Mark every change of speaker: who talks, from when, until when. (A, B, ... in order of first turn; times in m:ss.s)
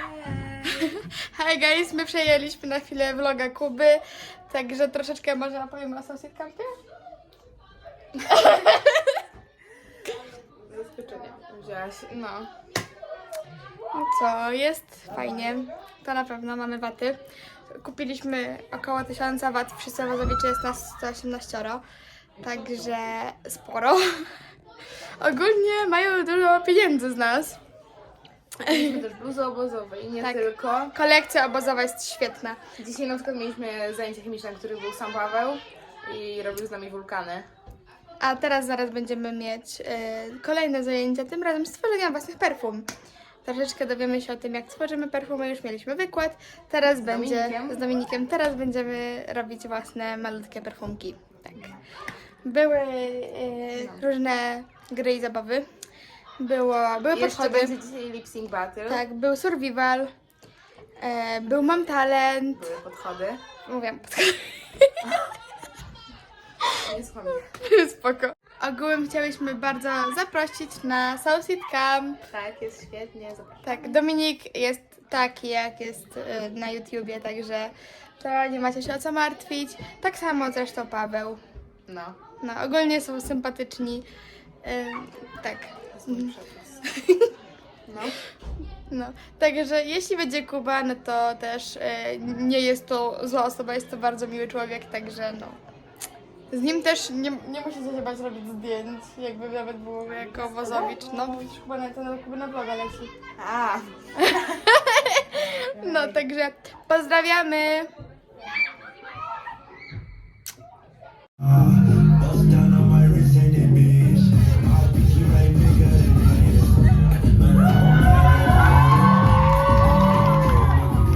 0:00.7-0:06.8 A
0:08.2-0:09.1 A
0:10.7-0:12.5 B
0:13.9-0:17.2 A
0:17.7-0:21.8 A
0:22.4-0:24.1 A
0:25.2-0:27.6 A
0:28.6-0:30.9 B
0:28.7-0:29.0 A
0:30.2-0:32.6 A
0:32.8-0:37.5 B
0:38.2-0:42.9 A
0:43.4-0:51.8 A
0:46.9-0:47.8 B
0:52.4-0:55.7 A
0:53.8-0:54.0 B
0:56.4-0:57.7 A
0:57.1-0:59.0 B
0:58.9-1:00.1 A
1:01.0-1:02.7 A
1:02.6-1:03.4 B
1:03.6-1:05.0 A
1:05.0-1:05.3 B
1:06.8-1:07.5 B
1:07.6-1:12.2 A
1:12.3-1:13.6 B
1:13.6-1:21.4 A
1:21.9-1:22.2 B
1:22.4-1:24.1 A
1:24.6-1:27.3 A
1:25.9-1:26.7 B
1:27.9-1:28.2 B
1:28.9-1:35.6 A
1:36.5-1:43.1 A
1:40.5-1:41.3 B
1:43.4-1:43.9 B
1:44.2-1:47.9 A